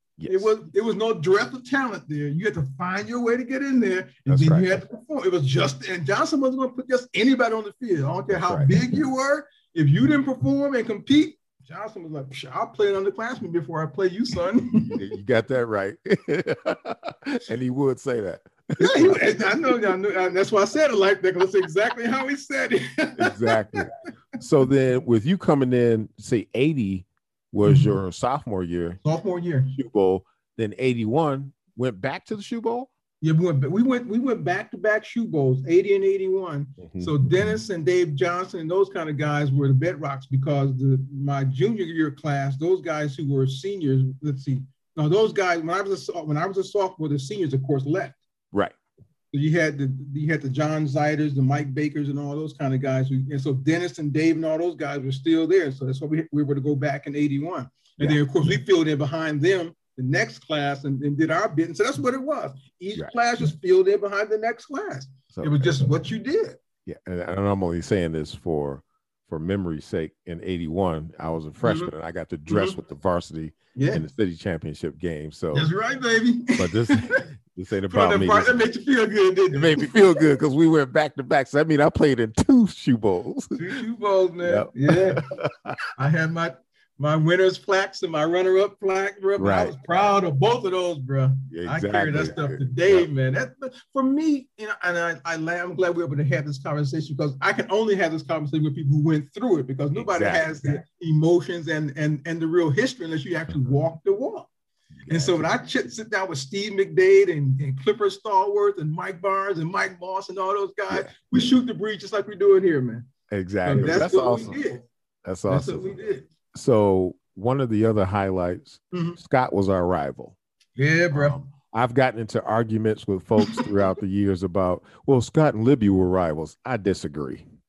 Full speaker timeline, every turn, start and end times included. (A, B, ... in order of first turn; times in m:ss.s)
0:00.2-0:00.5 A
0:00.2-0:15.0 B
0:04.3-0:04.8 A
0:08.3-0:08.8 A
0:14.9-0:19.7 A
0:18.8-0:23.9 B
0:23.2-0:29.0 A
0:27.6-0:28.0 B
0:29.0-0:29.7 B
0:29.7-0:32.9 A
0:33.2-0:48.2 B
0:36.8-0:37.6 A
0:49.3-1:06.6 B
1:05.3-1:05.9 A
1:06.9-1:15.7 A
1:11.6-1:11.9 B
1:12.5-1:12.8 B
1:13.8-1:14.0 B
1:15.5-1:17.2 B
1:16.6-1:18.6 A
1:17.9-1:19.9 B
1:19.5-1:23.7 A
1:23.6-1:25.3 B
1:24.4-1:25.8 A
1:26.0-1:44.5 B
1:29.4-1:29.8 A
1:31.5-1:33.1 A
1:40.0-1:40.8 A
1:45.0-1:45.5 A
1:45.1-1:53.1 B
1:50.9-1:51.3 A
1:53.3-1:54.6 A
1:53.6-1:54.9 B
1:55.2-1:56.0 A
1:55.5-1:56.3 B
1:56.5-2:00.4 A
1:58.9-1:59.2 B
2:00.8-2:01.4 B
2:01.1-2:07.4 A